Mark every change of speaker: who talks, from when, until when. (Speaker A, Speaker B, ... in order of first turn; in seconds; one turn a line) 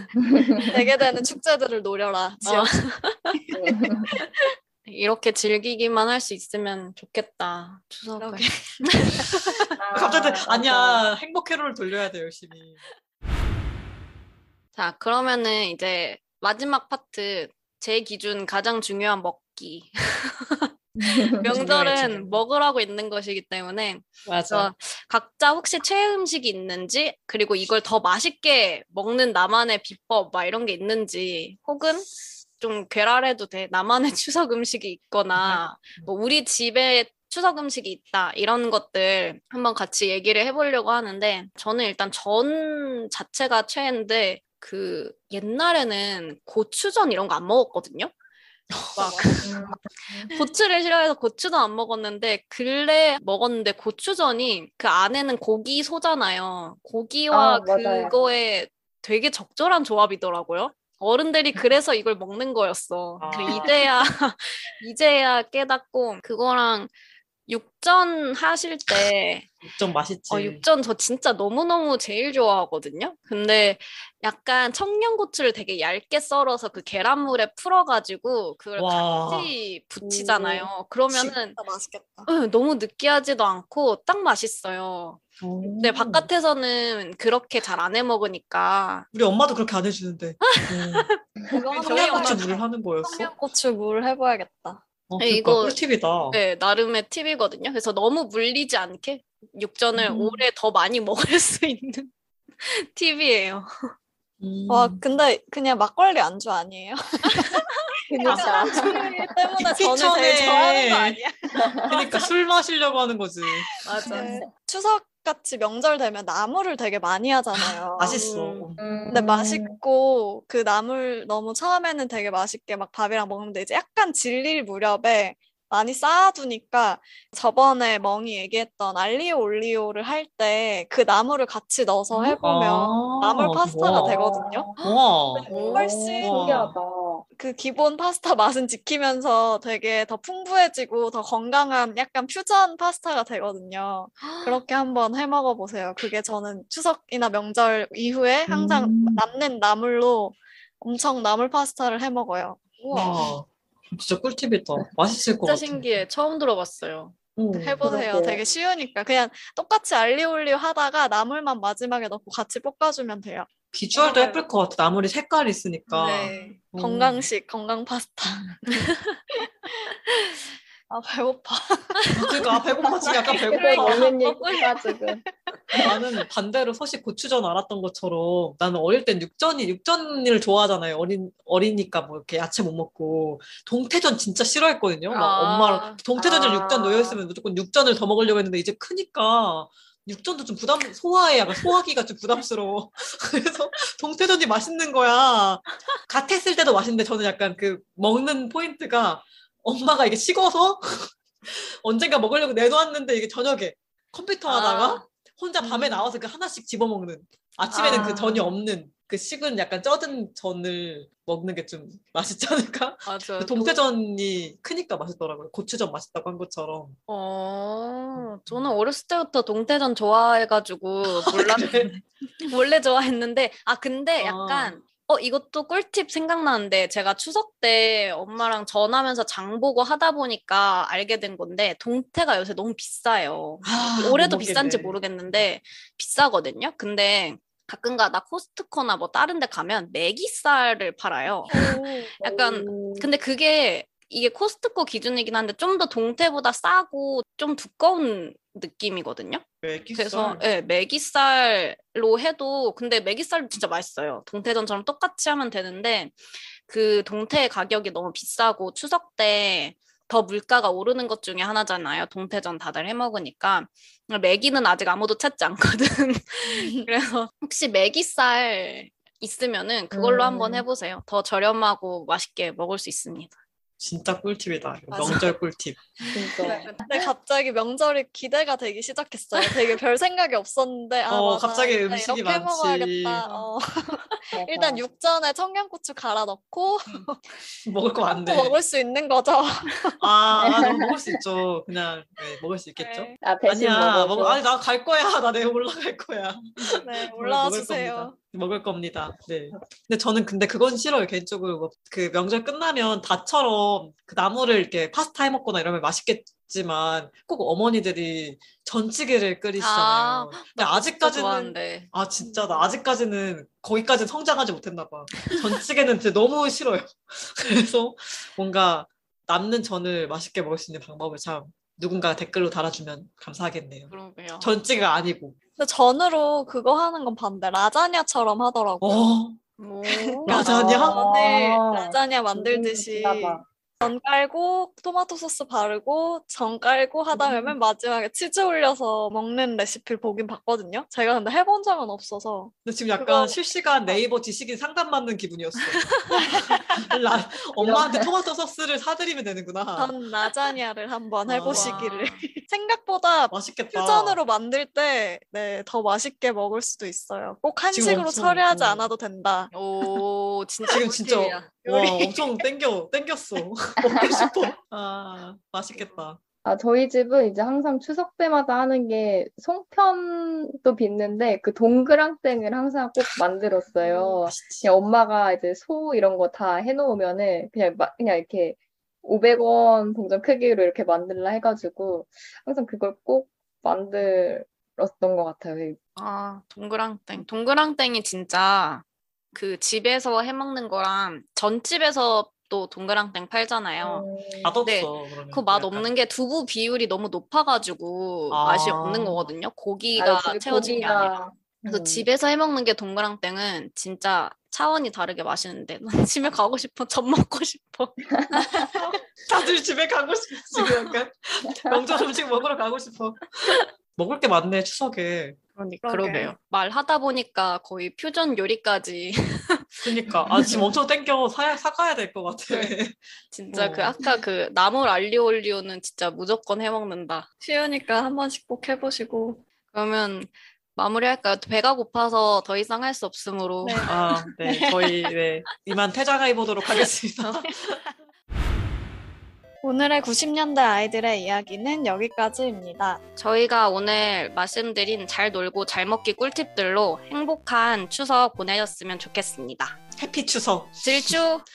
Speaker A: 0.3-0.8
Speaker B: 0.6-2.8
Speaker C: 2.4-3.4
Speaker B: 3.3-3.8
Speaker A: 3.5-4.1
Speaker C: 4.8-9.7
Speaker B: 8.2-9.3
Speaker A: 9.8-11.1
Speaker D: 9.9-12.8
Speaker C: 14.8-48.1
Speaker A: 21.0-21.6
Speaker D: 21.5-22.4
Speaker D: 24.2-24.7
Speaker D: 35.4-36.1
Speaker D: 48.7-49.5
Speaker B: 49.0-49.5
Speaker C: 49.0-49.4
Speaker A: 49.4-50.3
Speaker C: 50.3-66.9
Speaker A: 57.3-58.1
Speaker D: 63.2-63.7
Speaker C: 67.5-69.5
Speaker D: 69.6-70.6
Speaker C: 70.3-81.6
Speaker D: 78.8-79.5
Speaker A: 80.0-80.7
Speaker B: 81.1-82.3
Speaker C: 82.2-85.2
Speaker D: 85.4-86.3
Speaker C: 85.8-89.1
Speaker D: 89.1-91.1
Speaker C: 90.5-91.2
Speaker B: 91.5-94.8
Speaker D: 91.7-93.3
Speaker C: 91.8-92.6
Speaker D: 95.1-96.4
Speaker C: 95.2-95.8
Speaker C: 96.3-103.7
Speaker D: 100.0-100.4
Speaker D: 104.4-105.0
Speaker B: 104.7-107.6
Speaker A: 108.1-109.3
Speaker C: 108.2-109.0
Speaker B: 108.2-112.3
Speaker D: 109.6-111.2
Speaker A: 111.6-111.9
Speaker D: 111.8-113.7
Speaker C: 113.8-114.4
Speaker B: 113.8-118.2
Speaker A: 114.0-114.5
Speaker D: 117.9-118.8
Speaker C: 118.0-118.7
Speaker A: 118.8-119.8
Speaker B: 119.1-134.7
Speaker D: 132.1-134.2
Speaker A: 133.9-134.7
Speaker C: 134.8-135.9
Speaker D: 134.8-135.5
Speaker B: 135.3-136.6
Speaker A: 135.5-137.2
Speaker D: 136.2-136.8
Speaker B: 137.4-152.7
Speaker C: 144.2-144.6
Speaker D: 148.5-149.2
Speaker C: 152.8-153.2
Speaker D: 152.9-156.0
Speaker C: 155.4-157.1
Speaker D: 157.3-158.0
Speaker B: 157.5-164.4
Speaker A: 157.8-158.4
Speaker D: 163.7-167.3
Speaker B: 165.9-172.1
Speaker C: 166.0-166.6
Speaker C: 168.9-169.2
Speaker C: 172.0-172.3
Speaker D: 172.2-174.1
Speaker B: 173.0-175.9
Speaker A: 173.5-175.9
Speaker D: 175.8-217.0
Speaker C: 185.1-186.0
Speaker A: 186.2-187.2
Speaker C: 204.4-205.1
Speaker C: 205.6-206.1
Speaker C: 207.7-208.5
Speaker C: 213.1-213.8
Speaker C: 217.1-241.7
Speaker D: 218.2-218.7
Speaker D: 221.0-221.9
Speaker D: 224.2-224.8
Speaker D: 233.6-235.4
Speaker B: 241.5-242.1
Speaker A: 242.2-243.1
Speaker C: 242.2-273.3
Speaker D: 249.6-250.4
Speaker B: 266.5-266.9
Speaker A: 269.9-270.6
Speaker D: 273.8-275.8
Speaker B: 274.9-275.4
Speaker B: 276.0-287.3
Speaker A: 276.1-276.8
Speaker C: 276.4-276.9
Speaker C: 279.4-279.7
Speaker D: 281.1-283.2
Speaker C: 283.2-284.1
Speaker A: 284.3-284.8
Speaker D: 287.6-288.6
Speaker B: 288.1-289.9
Speaker D: 290.0-325.4
Speaker A: 290.4-291.2
Speaker B: 292.8-293.2
Speaker A: 293.2-294.4
Speaker B: 296.8-298.1
Speaker C: 309.6-311.9
Speaker B: 312.2-312.8
Speaker C: 323.9-324.5
Speaker B: 325.6-329.1
Speaker D: 328.8-329.4
Speaker C: 329.6-330.4
Speaker B: 329.9-344.0
Speaker D: 330.3-331.5
Speaker A: 330.5-333.4
Speaker D: 342.6-345.9
Speaker C: 345.9-346.2
Speaker B: 346.1-346.8
Speaker D: 346.8-349.9
Speaker A: 347.6-348.1
Speaker B: 349.8-359.5
Speaker D: 351.2-351.9
Speaker C: 351.5-352.3
Speaker D: 353.3-354.2
Speaker D: 357.7-358.9
Speaker C: 359.5-361.5
Speaker D: 360.7-366.2
Speaker B: 361.6-362.4
Speaker A: 363.9-364.3
Speaker A: 366.4-385.8
Speaker D: 374.2-374.7
Speaker C: 385.9-394.1
Speaker A: 393.8-394.5
Speaker D: 394.4-395.9
Speaker C: 394.6-408.6
Speaker D: 398.3-399.3
Speaker A: 399.9-402.1
Speaker A: 408.1-408.4
Speaker D: 408.7-415.4
Speaker C: 410.6-410.9
Speaker C: 415.6-419.9
Speaker B: 415.8-416.3
Speaker D: 419.8-423.0
Speaker C: 423.3-427.3
Speaker D: 423.5-424.0
Speaker B: 427.4-429.4
Speaker C: 429.7-434.2
Speaker B: 433.6-435.1
Speaker D: 433.8-437.8
Speaker B: 439.6-443.0
Speaker C: 443.2-449.8
Speaker D: 449.9-451.1
Speaker C: 450.8-451.4